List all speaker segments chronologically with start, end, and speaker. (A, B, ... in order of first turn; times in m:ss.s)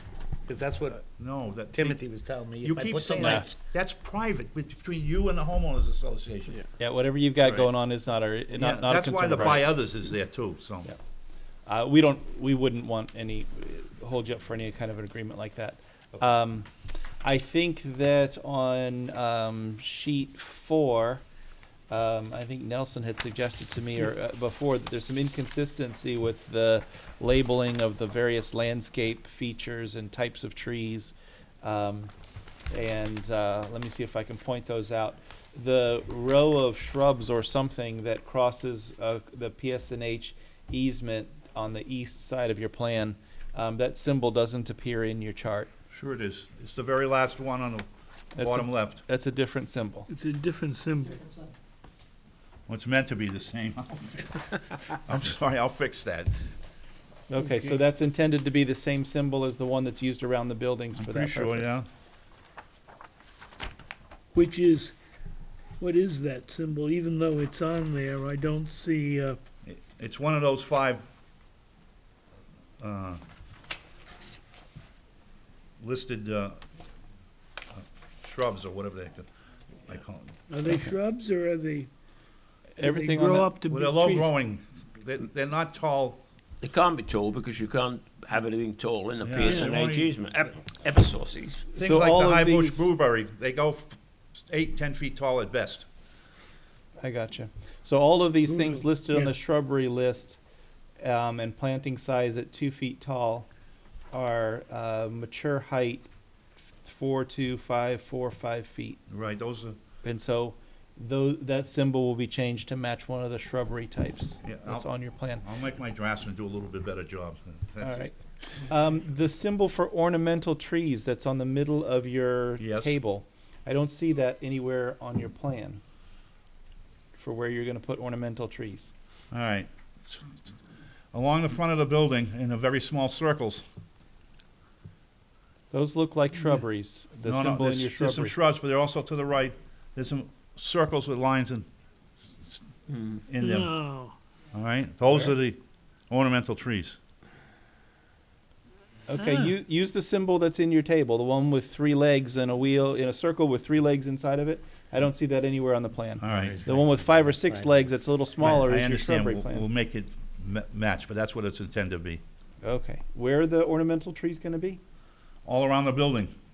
0:00.5-0:01.0 A
0:00.9-0:02.0 B
0:01.7-0:03.5 A
0:02.6-0:06.6 B
0:03.2-0:03.5 C
0:06.8-0:09.8 C
0:08.5-0:10.9 B
0:11.6-0:16.7 C
0:17.2-0:21.2 C
0:21.9-0:32.1 C
0:32.7-0:45.7 C
0:45.9-0:49.0 B
0:48.4-0:50.1 C
0:50.1-0:51.3 D
0:52.7-0:56.3 B
0:57.3-1:01.8 C
1:00.9-1:01.8 B
1:04.3-1:04.9 D
1:05.8-1:09.4 D
1:09.6-1:11.0 B
1:12.8-1:13.2 B
1:15.8-1:16.6 B
1:17.7-1:19.3 B
1:19.8-1:20.3 B
1:20.5-1:21.9 D
1:22.8-1:23.5 C
1:22.8-1:24.3 D
1:23.6-1:26.2 B
1:26.6-1:31.6 E
1:29.2-1:30.1 B
1:29.4-1:29.8 D
1:31.7-1:32.9 C
1:31.7-1:35.8 B
1:37.0-1:40.4 C
1:38.5-1:38.8 D
1:41.0-1:43.5 C
1:44.1-1:46.1 C
1:46.7-1:49.0 C
1:49.1-1:49.8 B
1:50.0-1:55.4 C
1:54.4-1:58.1 B
1:57.8-2:05.8 C
2:02.6-2:03.0 B
2:07.1-2:08.9 C
2:09.3-2:10.4 B
2:11.1-2:13.6 B
2:15.7-2:18.4 C
2:17.2-2:21.7 B
2:23.2-2:23.8 B
2:23.4-2:24.1 D
2:24.5-2:27.0 B
2:29.1-2:39.7 C
2:29.2-2:29.5 D
2:36.2-2:36.7 B
2:36.4-2:37.8 A
2:38.4-2:42.2 B
2:42.6-2:44.8 C
2:45.4-2:46.3 B